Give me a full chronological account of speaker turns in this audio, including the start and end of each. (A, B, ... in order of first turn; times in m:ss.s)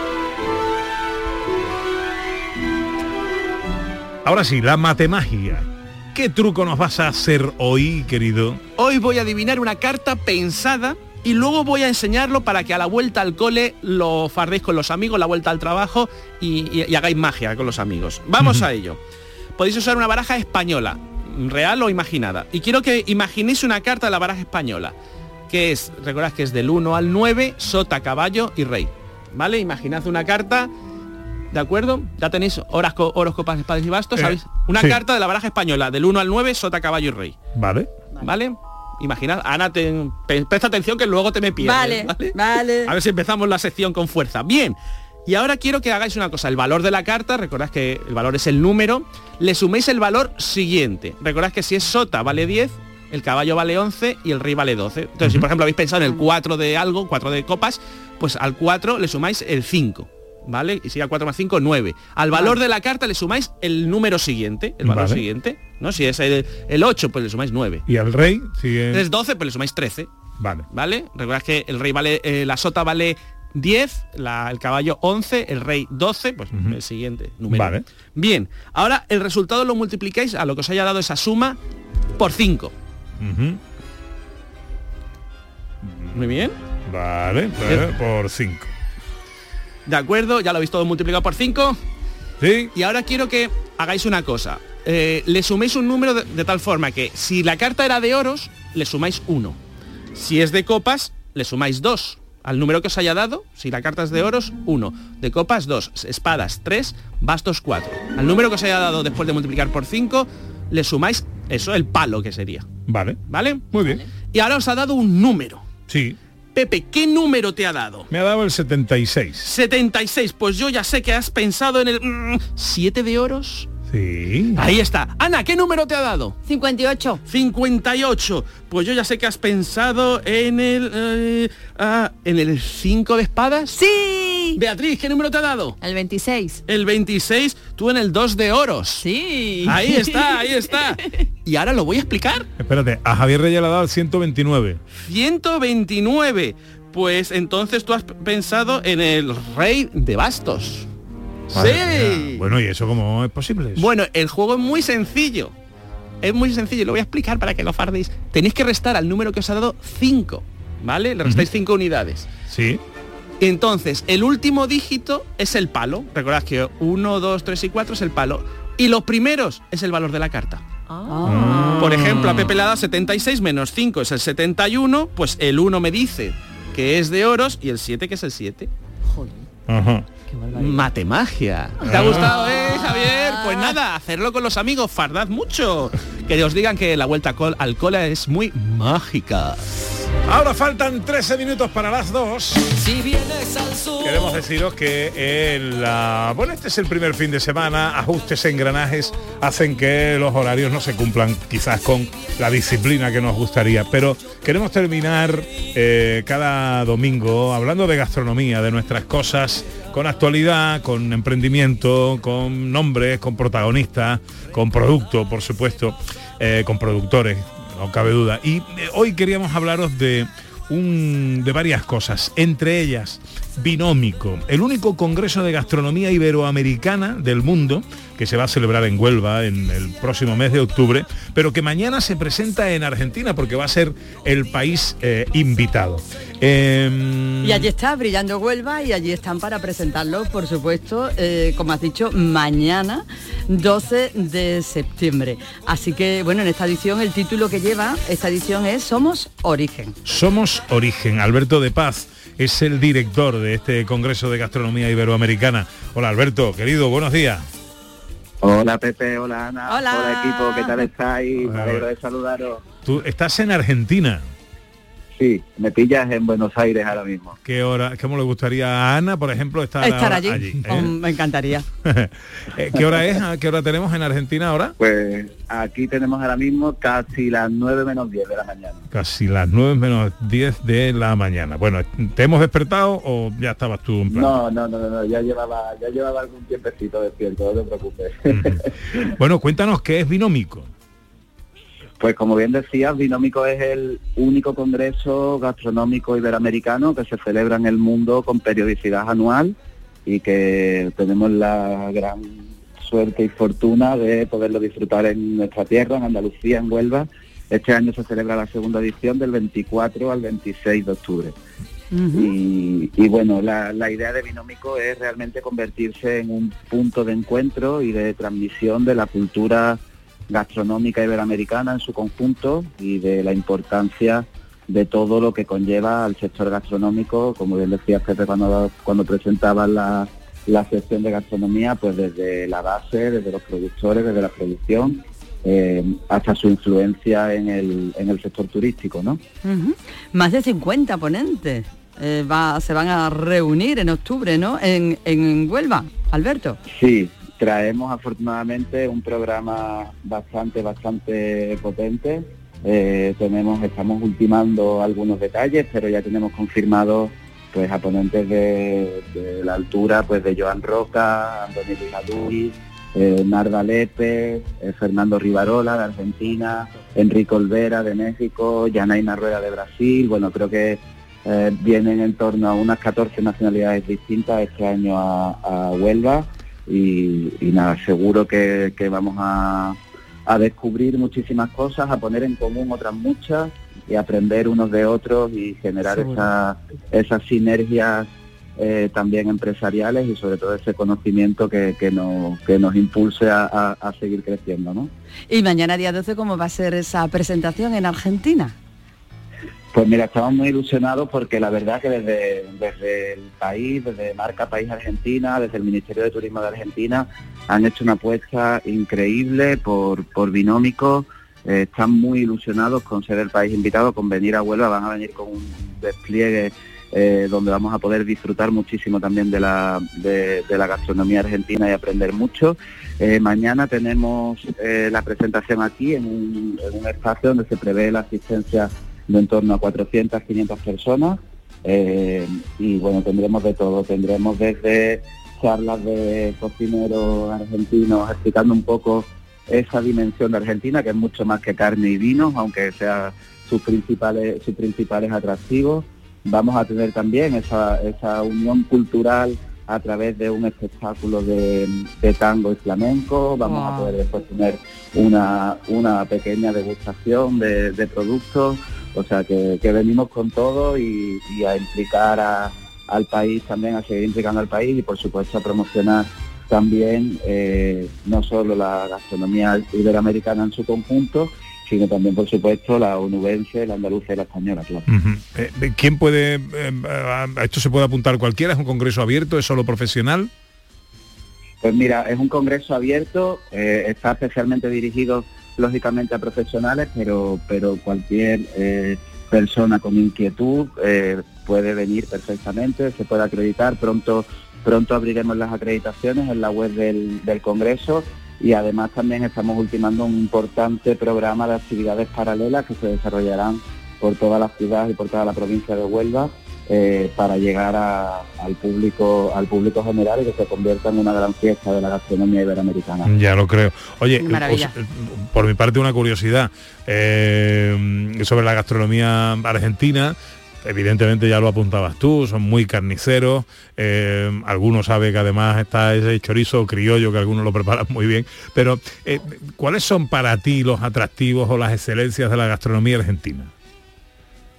0:04.2-0:08.6 A
0:08.8-0:19.0 B
0:18.4-0:18.7 A
0:19.6-0:24.9 B
0:25.5-0:30.7 B
0:31.5-0:37.4 B
0:34.2-0:35.0 A
0:37.6-0:37.9 A
0:38.2-1:07.9 B
0:41.6-0:43.0 C
1:04.8-1:05.2 A
1:07.9-1:09.0 A
1:08.9-1:10.1 B
1:10.4-1:10.6 A
1:10.7-1:21.6 B
1:16.5-1:16.8 A
1:17.5-1:17.8 A
1:22.2-1:22.7 B
1:23.2-1:23.6 A
1:25.9-1:26.2 A
1:26.1-1:26.6 B
1:26.9-1:28.7 A
1:29.9-1:31.8 B
1:32.4-1:32.7 A
1:32.7-1:39.6 B
1:40.1-1:52.7 B
1:52.9-1:53.2 A
1:53.3-1:53.7 B
1:53.7-1:54.0 A
1:54.3-1:55.7 B
1:55.9-1:56.2 A
1:56.5-1:58.1 B
1:58.1-1:59.5 A
1:59.5-2:03.7 B
2:03.9-2:04.6 A
2:04.6-2:06.4 B
2:06.5-2:07.2 C
2:07.3-2:13.8 B
2:13.7-2:14.6 C
2:14.5-2:15.8 B
2:15.8-2:16.6 D
2:16.7-2:19.0 B
2:19.0-2:20.4 D
2:19.6-2:22.5 B
2:22.6-2:24.8 A
2:25.0-2:30.9 B
2:31.5-2:32.4 B
2:31.5-2:33.9 A
2:33.8-2:35.5 B
2:36.2-2:42.3 B
2:42.5-2:42.8 A
2:43.4-2:50.6 B
2:50.9-2:51.7 D
2:51.1-2:51.9 C
2:51.2-2:52.4 A
2:51.8-2:58.7 B
2:59.7-3:00.1 A
3:00.4-3:00.8 D
3:00.5-3:09.6 B
3:01.8-3:02.3 A
3:02.3-3:03.6 C
3:10.3-3:12.7 A
3:14.0-3:57.7 A
3:57.4-4:10.0 C
4:10.0-4:17.4 A
4:18.4-4:22.6 E
4:19.7-4:20.9 C
4:21.4-4:21.9 A
4:22.8-4:24.3 A
4:25.2-4:27.4 E
4:27.4-4:31.0 A
4:29.8-4:31.7 C
4:31.8-4:34.8 A
4:32.8-4:33.0 E
4:34.8-4:38.9 E
4:38.9-4:44.4 A
4:44.1-4:49.0 E
4:48.3-4:48.6 A
4:49.2-4:50.7 A
4:52.0-5:11.4 E
5:11.9-5:12.3 C
5:12.1-5:39.2 E
5:39.4-5:46.6 C
5:46.8-6:34.9 E
6:25.9-6:26.3 C
6:35.3-6:38.5 C
6:39.7-7:54.9 E
7:33.4-7:34.0 C
7:54.9-8:00.3 A
8:01.6-8:33.1 E
8:33.1-8:53.5 A
8:34.2-8:34.7 C